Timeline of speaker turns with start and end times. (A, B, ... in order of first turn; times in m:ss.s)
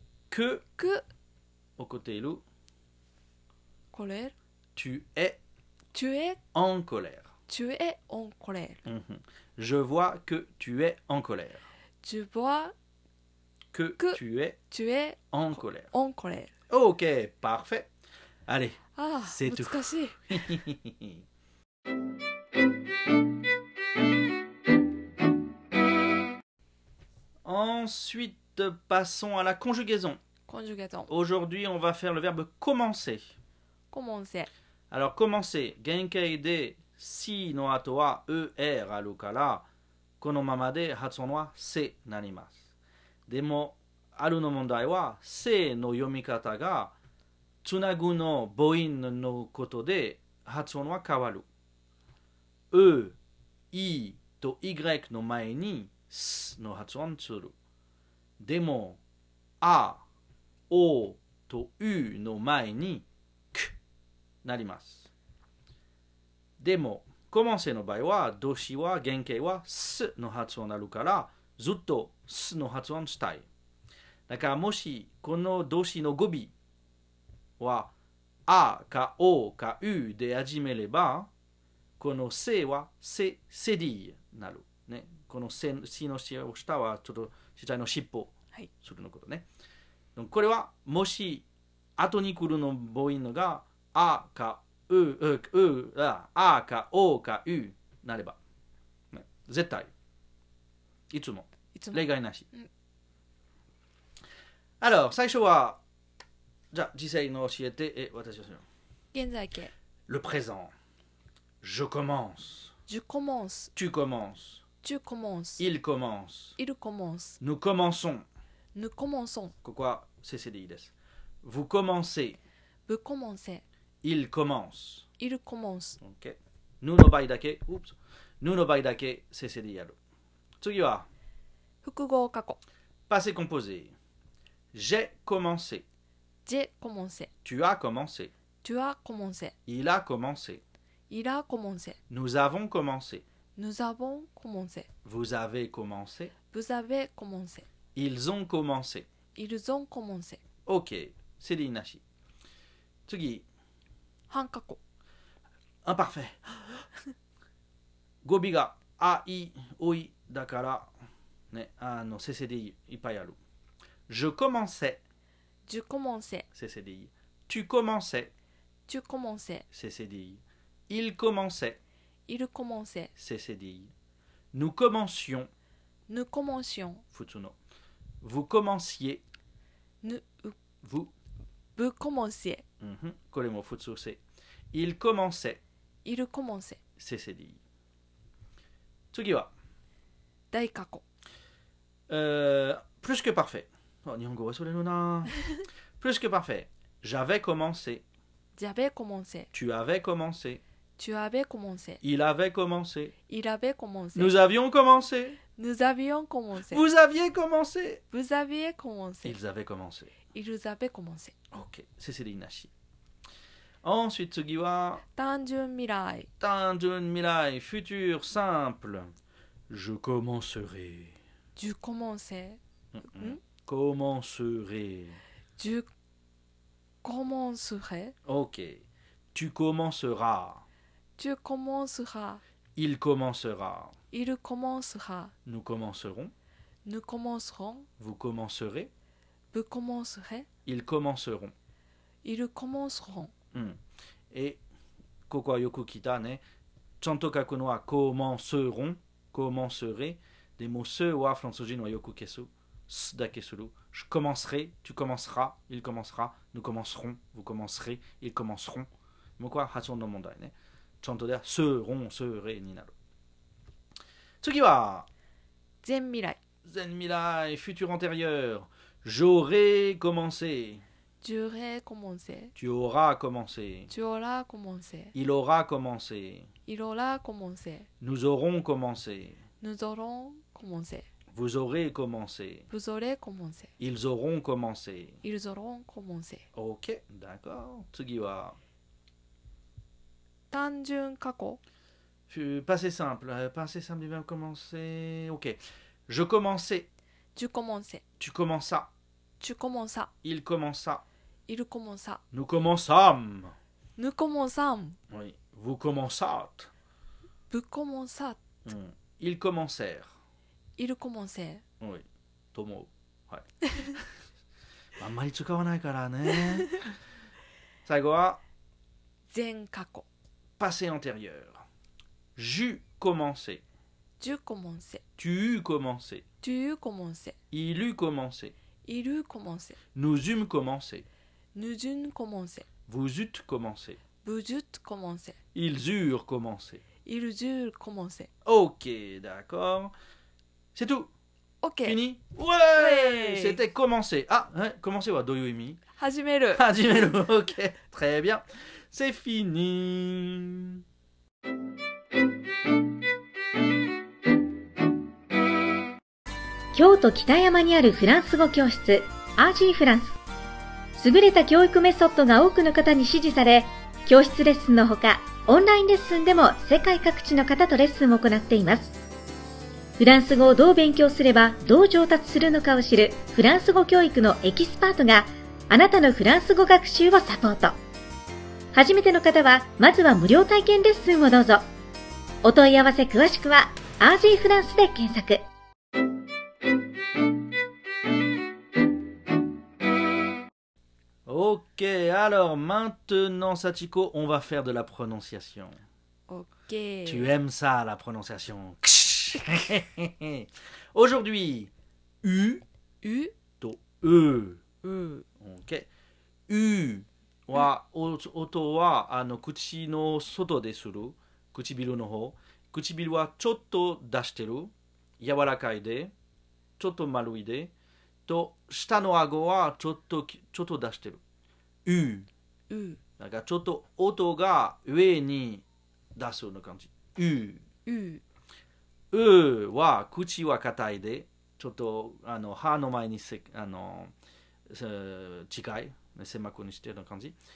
0:00.3-0:00.6 A
0:00.8-0:01.0 B
0:01.8-0:02.4 A
0:03.9-0:04.3 B
0:04.8-0:05.4 A
0:05.9-0:06.4 B
0:06.5-0:07.3 A
0:07.5-0:08.8 B
0:08.8-0:11.6 A
0:12.0-0:12.7 B
0:13.7-0:14.6 A
0:14.0-0:15.2 B
0:15.3-0:15.9 A
0:15.9-0:16.5 B
0:16.7-0:17.9 A
0:18.5-0:21.2 A
0:19.0-0:20.2 B
0:27.4-0:30.2 A
0:30.5-0:31.1 B
0:31.1-0:33.2 A
0:33.9-0:34.5 B
0:34.9-0:39.7 A
0:40.2-0:42.6 A
0:43.3-0:46.9 A
0:47.6-0:51.4 A
0:52.7-0:53.2 A
0:53.7-0:57.5 A
0:58.4-0:59.0 A
0:59.6-1:00.0 A
1:00.7-1:03.8 A
1:04.4-1:05.1 A
1:06.6-1:13.4 A
1:14.3-1:16.5 A
1:17.6-1:17.9 A
1:18.5-1:21.3 A
1:22.0-1:29.4 A
1:30.1-1:31.4 A
1:32.0-1:38.4 A
1:39.1-1:39.9 A
1:41.1-1:42.5 A
1:41.7-1:42.7 B
1:44.8-1:45.8 A
1:46.7-1:48.6 A
1:49.1-1:49.7 B
1:50.1-1:50.7 A
1:51.6-1:52.7 A
1:52.9-1:53.7 B
1:53.8-1:54.6 A
1:54.8-1:55.6 B
1:55.6-1:56.6 A
1:56.6-1:57.4 B
1:57.4-1:58.2 A
1:58.8-1:59.5 B
1:59.6-2:02.4 A
2:02.9-2:03.6 B
2:04.0-2:05.1 A
2:05.2-2:06.0 B
2:06.0-2:10.0 A
2:10.6-2:11.1 A
2:11.8-2:12.6 B
2:13.1-2:13.9 A
2:14.7-2:15.8 A
2:16.4-2:17.3 B
2:17.4-2:18.3 A
2:18.6-2:19.5 B
2:19.7-2:20.6 A
2:21.1-2:22.0 B
2:22.1-2:23.2 A
2:23.6-2:24.9 B
2:25.0-2:26.3 A
2:26.5-2:27.7 B
2:28.0-2:29.1 A
2:29.4-2:30.4 B
2:30.6-2:32.0 A
2:33.1-2:33.4 A
2:34.3-2:34.8 B
2:35.8-2:36.8 A
2:38.2-2:40.9 A
2:41.5-2:43.4 A
2:44.1-2:45.0 A
2:45.7-2:46.5 B
2:46.5-2:48.3 A
2:48.9-2:49.6 B
2:49.7-2:51.8 A
2:52.3-2:53.1 B
2:53.2-2:53.9 A
2:54.5-2:55.5 A
2:56.1-2:57.0 B
2:57.1-2:57.5 A
2:58.2-2:59.2 A
3:00.0-3:00.6 B
3:00.8-3:01.1 A
3:01.8-3:02.6 B
3:02.8-3:04.2 A
3:04.7-3:05.6 A
3:06.0-3:06.8 B
3:07.0-3:07.6 A
3:09.1-3:09.5 A
3:10.5-3:11.0 B
3:12.1-3:15.3 A
3:16.0-3:18.0 A
3:18.6-3:19.5 B
3:19.5-3:20.6 A
3:21.0-3:22.0 B
3:22.0-3:23.1 A
3:23.3-3:24.3 B
3:24.1-3:25.4 A
3:25.6-3:26.8 B
3:26.7-3:28.0 A
3:28.1-3:29.4 B
3:29.2-3:30.1 A
3:30.3-3:31.4 B
3:31.5-3:32.7 A
3:33.8-3:35.0 A
3:35.1-3:36.3 B
3:36.4-3:39.1 A
3:39.7-3:41.2 A
3:41.6-3:42.6 B
3:42.9-3:45.2 A
3:43.1-3:43.4 B
3:45.6-3:45.9 B
3:47.0-3:48.2 B
3:48.2-3:50.6 A
3:51.2-3:52.4 B
3:52.8-3:53.9 A
3:54.1-3:55.3 B
3:55.5-3:56.3 A
3:56.8-3:57.9 B
3:58.0-3:58.9 A
3:59.5-4:00.5 B
4:00.6-4:01.5 A
4:02.2-4:03.3 B
4:03.5-4:03.8 A
4:04.3-4:04.6 A
4:05.3-4:06.4 A
4:07.0-4:18.9 A
4:19.4-4:22.9 A
4:24.4-4:25.1 A
4:25.8-4:26.4 B
4:26.6-4:30.8 A
4:31.2-4:32.5 B
4:32.6-4:33.9 A
4:33.9-4:35.1 B
4:35.1-4:36.5 A
4:36.7-4:37.9 B
4:38.0-4:39.4 A
4:39.6-4:41.1 B
4:41.3-4:42.7 A
4:42.7-4:43.7 B
4:43.8-4:45.2 A
4:45.2-4:46.4 B
4:46.5-4:48.6 A
4:50.5-4:51.6 B
4:52.3-4:56.9 A
4:57.4-4:58.0 B
4:58.2-4:58.9 A
4:59.4-5:00.1 B
5:00.2-5:01.0 A
5:01.5-5:02.2 B
5:02.3-5:03.5 A
5:04.0-5:05.0 B
5:05.1-5:06.7 A
5:07.5-5:08.4 B
5:08.6-5:10.1 A
5:10.8-5:11.6 B
5:11.8-5:14.0 A
5:15.0-5:16.8 A
5:17.8-5:18.4 A
5:19.3-5:20.1 B
5:20.6-5:21.6 A
5:22.4-5:23.6 A
5:24.2-5:25.0 B
5:25.2-5:26.2 A
5:26.4-5:27.4 B
5:27.5-5:28.5 A
5:28.8-5:29.8 B
5:30.0-5:31.1 A
5:31.5-5:32.7 B
5:32.9-5:34.0 A
5:34.2-5:35.4 B
5:35.5-5:36.8 A
5:37.0-5:38.3 B
5:38.4-5:39.9 A
5:40.8-5:41.1 A
5:41.6-5:42.0 B
5:41.8-5:45.8 A
5:42.8-5:43.6 B
5:46.0-5:46.6 B
5:46.5-5:50.8 A
5:56.7-6:00.2 C
6:01.0-6:08.9 C
6:10.0-6:17.8 C
6:18.7-6:21.6 C
6:22.4-6:25.4 C
6:31.2-6:35.8 A
6:36.3-6:37.3 B
6:37.1-6:41.7 A
6:42.2-6:42.6 A
6:43.0-6:43.4 B
6:43.6-6:44.6 A
6:44.8-6:45.2 B
6:45.4-6:45.9 A
6:46.5-6:56.1 A
6:56.8-6:57.7 A
6:58.2-7:01.2 A
7:01.8-7:02.3 A
7:02.7-7:03.0 B
7:03.2-7:07.6 A
7:07.9-7:08.2 B
7:09.1-7:14.1 A
7:14.7-7:17.4 A